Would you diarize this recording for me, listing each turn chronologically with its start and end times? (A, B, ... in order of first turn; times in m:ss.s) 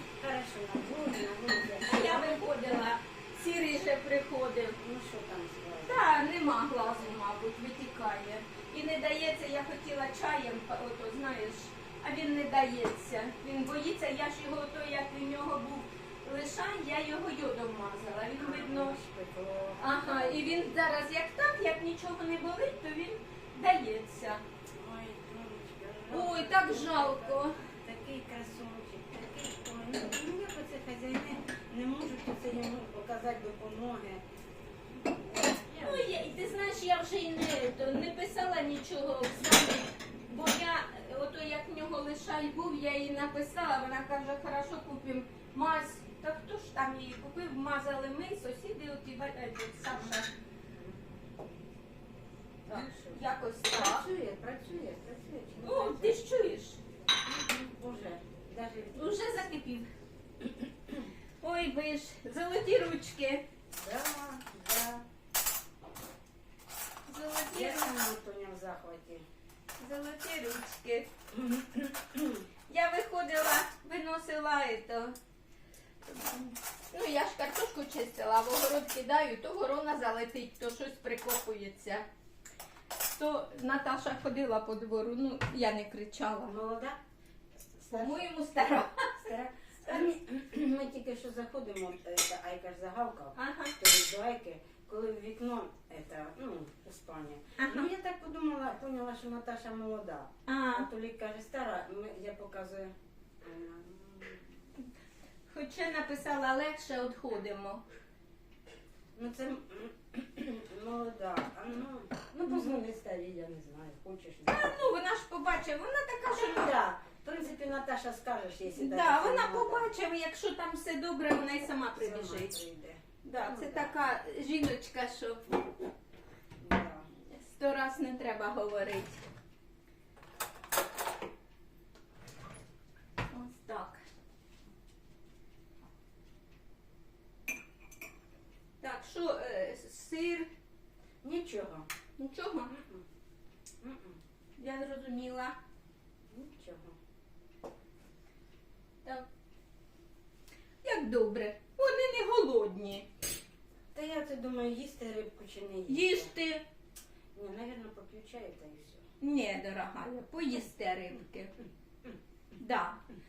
0:00.2-0:02.4 A
0:01.8-0:04.8 B
0:04.8-0:06.0 A
0:05.8-0:19.0 B
0:18.4-0:20.7 A
0:19.8-0:24.4 B
0:24.7-0:34.2 A
0:26.1-0:27.6 B
0:35.1-0:36.1 A
0:35.8-0:50.3 B
0:50.7-0:51.6 A
0:52.6-0:56.2 A
0:52.7-0:54.1 B
0:55.6-0:56.8 B
0:57.0-0:59.4 A
0:59.0-0:59.9 B
1:00.4-1:01.1 A
1:01.4-1:03.4 B
1:03.7-1:05.0 A
1:07.1-1:07.9 B
1:07.5-1:09.2 A
1:09.8-1:11.1 B
1:11.3-1:12.4 A
1:12.7-1:15.2 B
1:16.1-1:22.0 B
1:23.0-1:26.5 B
1:26.4-1:27.0 A
1:27.8-1:28.3 A
1:27.9-1:29.3 B
1:29.2-1:44.5 A
1:33.4-1:33.7 B
1:37.6-1:37.9 B
1:40.5-1:40.9 B
1:45.5-1:47.8 B
1:49.1-1:54.9 A
1:52.5-1:52.8 B
1:54.5-1:56.7 B
1:56.3-1:59.9 A
1:58.7-2:02.6 B
2:01.8-2:04.0 A
2:03.2-2:05.4 B
2:06.6-2:07.1 A
2:07.3-2:09.2 B
2:13.3-2:14.0 B
2:18.8-2:20.5 B
2:21.2-2:21.9 A
2:22.2-2:22.7 B
2:22.7-2:23.0 A
2:23.8-2:24.2 A
2:24.6-2:25.5 B
2:26.3-2:27.0 A
2:30.8-2:33.1 B
2:33.9-2:36.3 A
2:35.9-2:36.6 B
2:37.3-2:39.0 A
2:39.2-2:41.5 B
2:42.6-2:43.0 B